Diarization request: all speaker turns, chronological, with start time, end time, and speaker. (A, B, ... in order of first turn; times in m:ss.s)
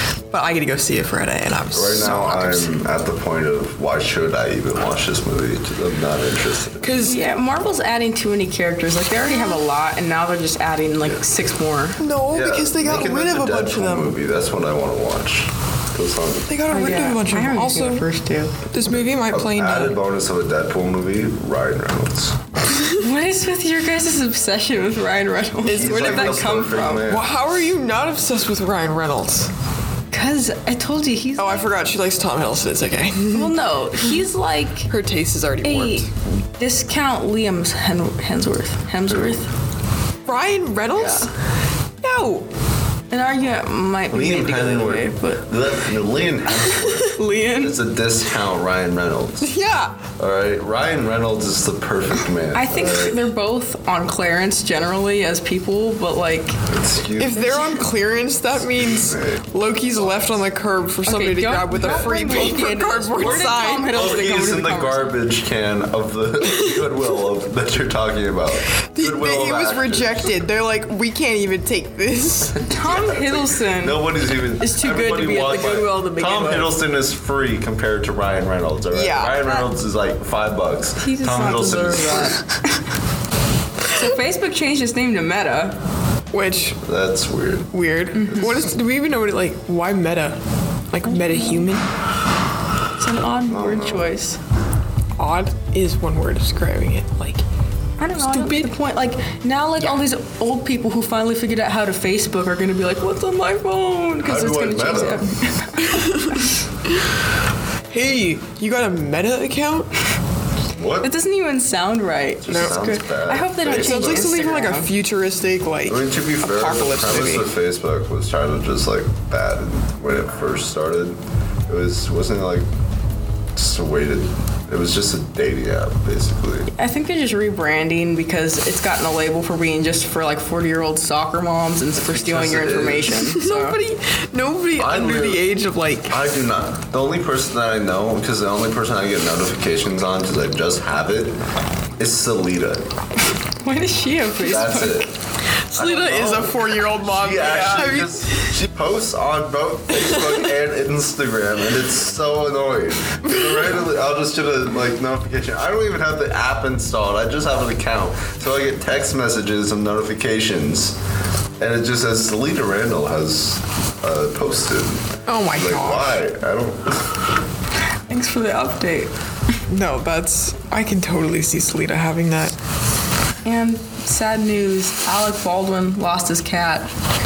0:00.3-0:02.7 A
0:01.7-0:07.0 B
0:06.8-0:07.2 A
0:07.0-0:12.0 C
0:12.0-0:14.2 A
0:12.3-0:16.5 B
0:16.5-0:18.1 A
0:16.7-0:18.5 C
0:18.7-0:20.0 A
0:19.2-0:22.4 B
0:23.0-0:27.1 C
0:25.6-0:29.5 A
0:25.7-0:27.4 B
0:30.1-0:31.7 C
0:31.4-0:33.6 A
0:33.3-0:34.9 C
0:34.9-0:36.1 A
0:35.6-0:36.1 C
0:36.6-0:39.5 C
0:40.3-0:41.3 A
0:41.0-0:41.3 C
0:42.0-0:42.5 A
0:43.1-0:45.4 C
0:44.1-0:49.5 B
0:47.1-0:47.8 C
0:49.4-0:50.0 A
0:50.2-0:53.2 B
0:52.5-0:56.6 C
0:56.7-0:57.6 B
0:57.2-1:04.1 A
0:57.4-0:57.8 C
0:58.8-1:00.4 B
1:01.1-1:05.1 C
1:03.2-1:10.4 B
1:08.9-1:12.7 A
1:12.6-1:22.4 B
1:12.7-1:14.0 C
1:14.6-1:16.7 C
1:18.9-1:19.5 A
1:21.0-1:22.8 C
1:23.9-1:25.8 C
1:26.3-1:26.8 A
1:26.8-1:27.7 B
1:27.7-1:30.4 A
1:28.1-1:28.5 C
1:30.9-1:31.9 A
1:33.0-1:34.4 C
1:33.5-1:34.1 B
1:35.2-1:37.4 A
1:38.0-1:46.4 C
1:38.2-1:38.7 A
1:44.2-1:45.3 B
1:45.8-1:46.4 A
1:47.9-1:49.9 A
1:50.8-1:51.1 B
1:51.0-1:54.9 C
1:52.4-1:54.4 B
1:53.7-1:57.5 A
1:55.9-2:02.7 B
2:03.6-2:06.7 B
2:06.7-2:13.8 C
2:12.0-2:13.2 B
2:13.2-2:16.2 A
2:14.8-2:15.4 B
2:16.1-2:21.4 B
2:22.0-2:22.9 B
2:23.6-2:25.1 C
2:24.4-2:25.1 B
2:25.7-2:28.6 A
2:25.7-2:41.0 B
2:41.6-2:47.2 B
2:45.3-2:46.2 A
2:48.1-2:49.1 C
2:49.7-2:52.5 A
2:53.4-2:56.9 C